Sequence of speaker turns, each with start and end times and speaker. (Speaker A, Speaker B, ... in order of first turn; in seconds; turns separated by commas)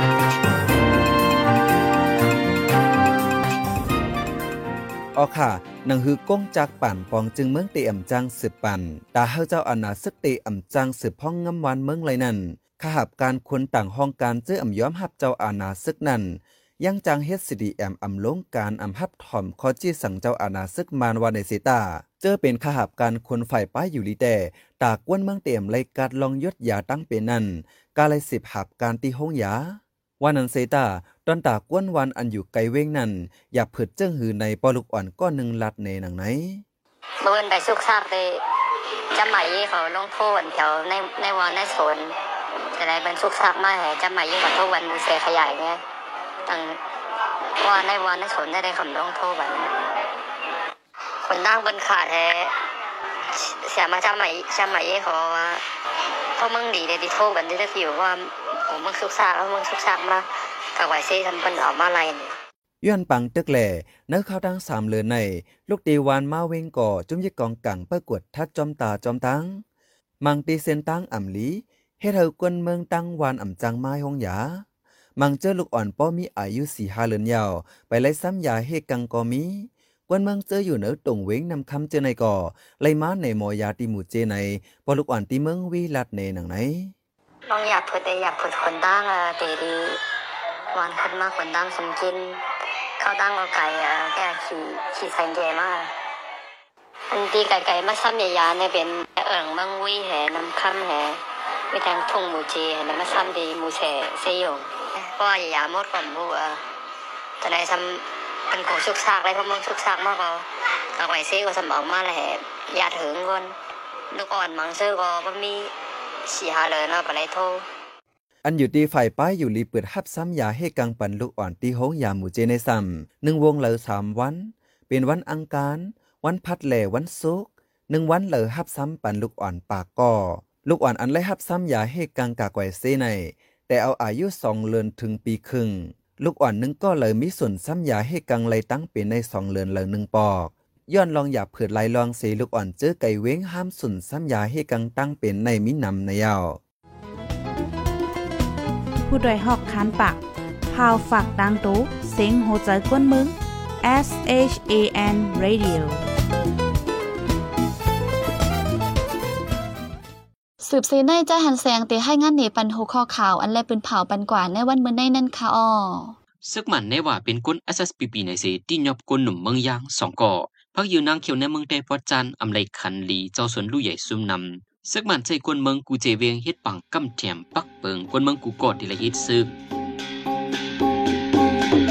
Speaker A: 5.2-36.6, Speaker B: 37.2-38.4, Speaker B: 39.1-42.1, Speaker B: 42.7-45.8, Speaker B: 46.5-46.8, Speaker B: 47.6-49.7, Speaker B: 51.2-52.5, Speaker B: 53.4-55.6, Speaker B: 56.4-62.3, Speaker A: 62.8-69.6, Speaker A: 70.2-74.6, Speaker A: 75.2-86.9, Speaker B: 87.5-90.0, Speaker B: 90.7-92.4, Speaker B: 93.0-95.9, Speaker B: 97.1-101.2, Speaker B: 101.7-106.6, Speaker B: 107.4-110.4, Speaker B: 111.0-113.5, Speaker B: 114.1-115.7, Speaker B: 116.3-117.6, Speaker A: 118.4-146.6, Speaker C: 149.1-156.0, Speaker D: 160.6-166.1, Speaker E: 166.4-179.5